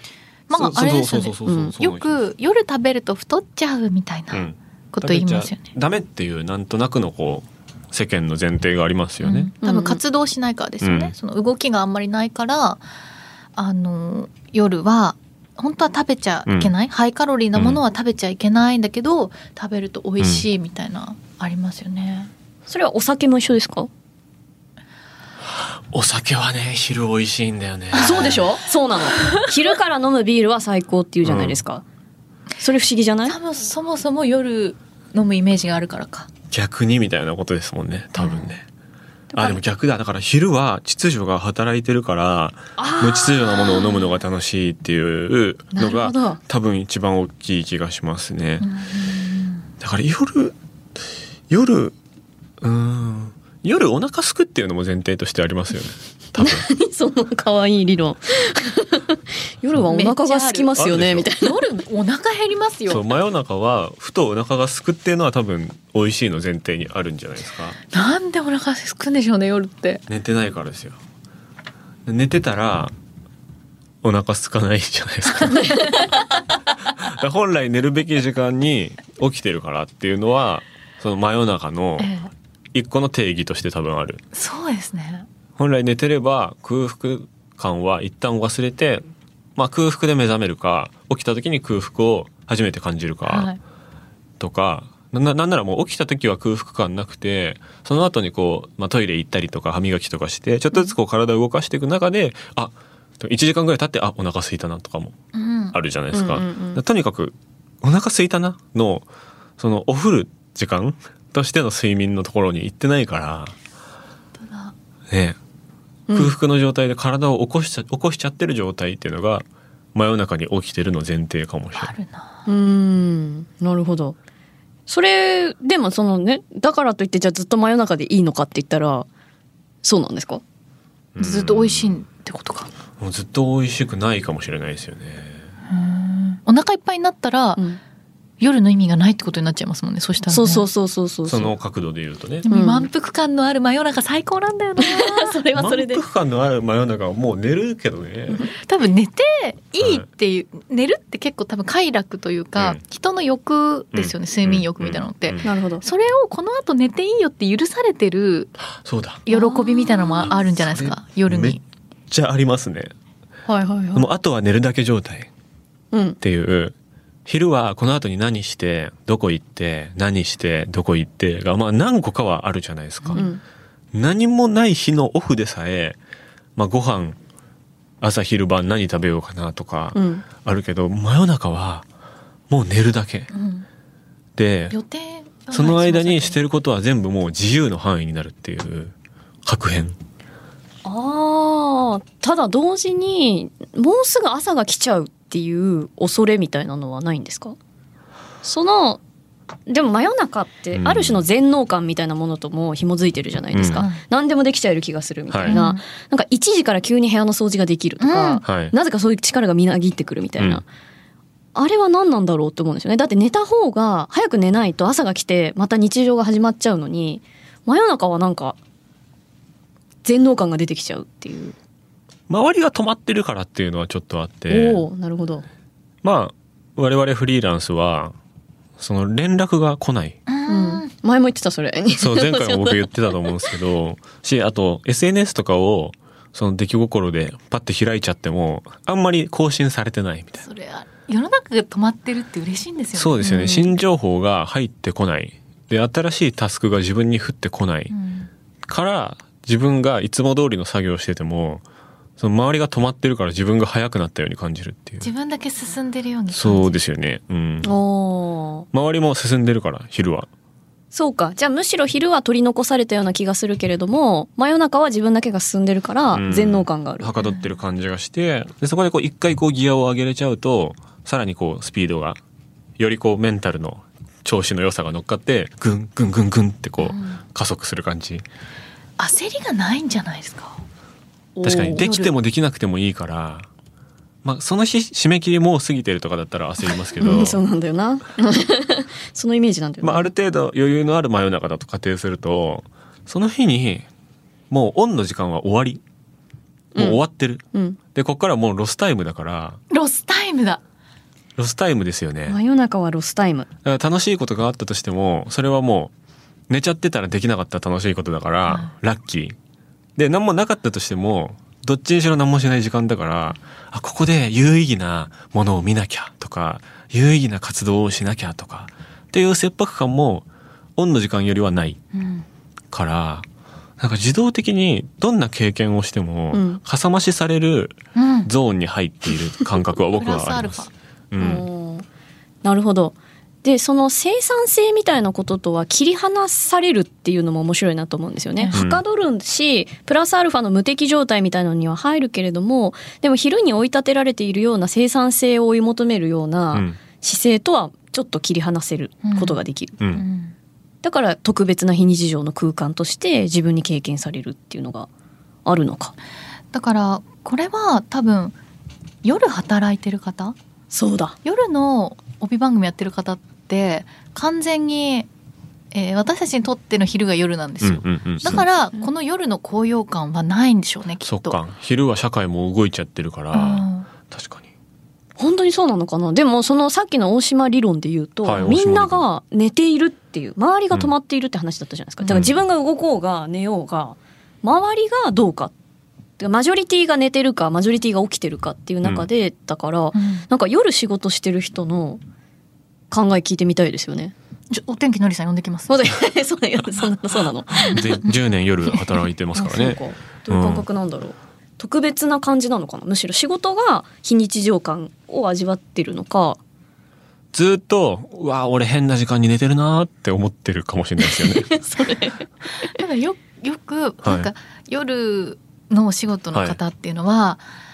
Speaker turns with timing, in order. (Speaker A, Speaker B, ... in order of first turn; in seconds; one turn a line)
Speaker A: 0.5-5.7
Speaker B: 0.5-2.2
Speaker C: 1.5-1.7
Speaker B: 4.3-9.5
Speaker A: 9.2-12.8
Speaker C: 9.6-10.0
Speaker B: 10.8-11.1
Speaker A: 13.6-22.3
Speaker B: 16.5-16.7
Speaker B: 17.6-17.8
Speaker B: 20.2-20.4
Speaker C: 22.7-23.9
Speaker B: 25.5-28.5
Speaker C: 27.9-31.8
Speaker A: 29.2-29.5
Speaker B: 31.2-31.6
Speaker C: 32.6-33.4
Speaker A: 33.3-36.3
Speaker B: 36.5-38.6
Speaker A: 38.2-38.5
Speaker C: 39.3-39.6
Speaker B: 39.3-48.7
Speaker C: 42.8-44.1
Speaker C: 45.7-46.4
Speaker A: 48.6-49.7
Speaker B: 49.8-50.6
Speaker B: 51.5-52.0
Speaker B: 52.6-56.7
Speaker C: 56.4-61.7
Speaker A: 59.9-60.8
Speaker B: 60.8-61.3
Speaker A: 61.3-63.1
Speaker B: 62.9-67.8
Speaker A: 67.9-70.0
Speaker B: 70.1-71.0
Speaker B: 72.0-72.9
Speaker B: 74.0-75.9
Speaker A: 75.4-76.0
Speaker C: 75.6-76.1
Speaker B: 76.8-82.2
Speaker A: 82.0-82.3
Speaker B: 82.7-84.2
Speaker A: 84.3-85.3
Speaker B: 85.6-89.0
Speaker B: 89.6-93.5
Speaker A: 93.3-93.6
Speaker B: 94.4-105.2
Speaker A: 105.3-105.8
Speaker B: 105.7-109.1
Speaker C: 106.1-106.8
Speaker B: 109.6-113.6
Speaker A: 114.4-114.8
Speaker B: 115.1-115.4
Speaker C: 116.1-116.3
Speaker B: 116.1-121.9
Speaker A: 121.8-122.5
Speaker C: 122.5-124.2
Speaker C: 124.9-129.1
Speaker C: 129.8-130.4
Speaker B: 131.2-132.0
Speaker A: 131.2-132.7
Speaker B: 133.0-135.5
Speaker A: 135.7-137.6
Speaker A: 138.4-140.7
Speaker C: 140.3-141.5
Speaker B: 141.3-142.5
Speaker A: 142.4-145.4
Speaker C: 142.5-142.9
Speaker C: 144.8-146.0
Speaker B: 145.6-148.5
Speaker A: 148.6-158.5
Speaker B: 149.8-150.1
Speaker B: 153.9-155.4
Speaker C: 155.4-155.8
Speaker B: 158.8-159.2
Speaker A: 159.3-161.6
Speaker C: 159.3-160.3
Speaker B: 160.2-161.6
Speaker B: 162.1-162.9
Speaker C: 163.5-164.1
Speaker B: 163.9-165.3
Speaker C: 165.9-166.2
Speaker B: 166.2-166.8
Speaker B: 167.3-173.3
Speaker C: 173.2-173.4
Speaker B: 173.9-176.0
Speaker B: 176.6-177.2
Speaker B: 178.0-181.9
Speaker C: 179.9-180.2
Speaker B: 182.5-183.3
Speaker A: 183.3-183.7
Speaker B: 184.4-184.8
Speaker A: 184.7-186.4
Speaker B: 185.5-188.9
Speaker B: 189.4-190.0
Speaker C: 190.8-197.6
Speaker C: 198.4-199.0
Speaker C: 199.7-210.7
Speaker B: 200.7-201.2
Speaker B: 203.5-203.9
Speaker A: 203.7-204.0
Speaker B: 205.3-205.6
Speaker A: 205.5-205.8
Speaker A: 208.0-208.4
Speaker B: 208.4-208.7
Speaker C: 211.6-218.6
Speaker C: 220.0-221.6
Speaker B: 222.3-224.8
Speaker C: 224.5-225.4
Speaker B: 226.0-228.2
Speaker B: 228.8-230.2
Speaker A: 230.3-230.9
Speaker C: 230.5-233.4
Speaker B: 232.0-240.4
Speaker A: 240.4-243.6
Speaker B: 242.9-247.9
Speaker C: 243.2-243.7
Speaker A: 247.9-248.3
Speaker B: 248.7-251.6
Speaker B: 252.2-255.1
Speaker A: 255.0-256.8
Speaker B: 256.3-257.7
Speaker C: 257.6-258.7
Speaker B: 258.7-260.3
Speaker C: 260.9-267.1
Speaker B: 266.1-272.2
Speaker B: 272.8-278.2
Speaker A: 276.8-277.2
Speaker A: 279.0-280.6
Speaker C: 281.4-281.9
Speaker B: 281.4-283.5
Speaker A: 281.5-282.1
Speaker B: 284.2-287.4
Speaker C: 287.0-290.1
Speaker B: 289.8-293.9
Speaker B: 294.5-295.8
Speaker C: 296.8-297.0
Speaker B: 296.8-299.6
Speaker C: 297.5-297.8
Speaker A: 299.7-300.6
Speaker B: 301.4-302.4
Speaker C: 302.3-303.5
Speaker B: 303.6-305.9
Speaker B: 306.5-309.4
Speaker B: 310.0-320.3
Speaker B: 320.8-321.8
Speaker A: 321.9-322.3
Speaker B: 322.7-323.3
Speaker B: 323.8-331.4
Speaker C: 326.3-326.6
Speaker A: 328.0-328.3
Speaker A: 329.9-330.7
Speaker C: 331.2-331.9
Speaker C: 332.4-349.8
Speaker B: 338.5-338.8
Speaker B: 346.5-346.8
Speaker A: 349.0-349.4
Speaker B: 349.8-350.1
Speaker A: 349.9-350.3
Speaker C: 350.8-354.9
Speaker C: 355.4-355.9
Speaker A: 356.5-358.4
Speaker A: 359.0-360.4
Speaker C: 360.7-361.2
Speaker A: 361.2-365.1
Speaker A: 365.7-371.4
Speaker B: 367.6-368.4
Speaker B: 371.1-374.5
Speaker A: 373.3-373.9
Speaker C: 375.2-385.5
Speaker B: 378.2-379.0
Speaker B: 382.1-382.3
Speaker C: 386.2-392.0
Speaker A: 389.9-390.3
Speaker C: 392.9-394.1
Speaker A: 394.5-395.9
Speaker C: 395.7-398.0
Speaker A: 397.6-398.2
Speaker B: 397.6-400.7
Speaker C: 399.4-406.4
Speaker B: 407.3-411.5
Speaker C: 411.0-412.7
Speaker A: 412.6-417.4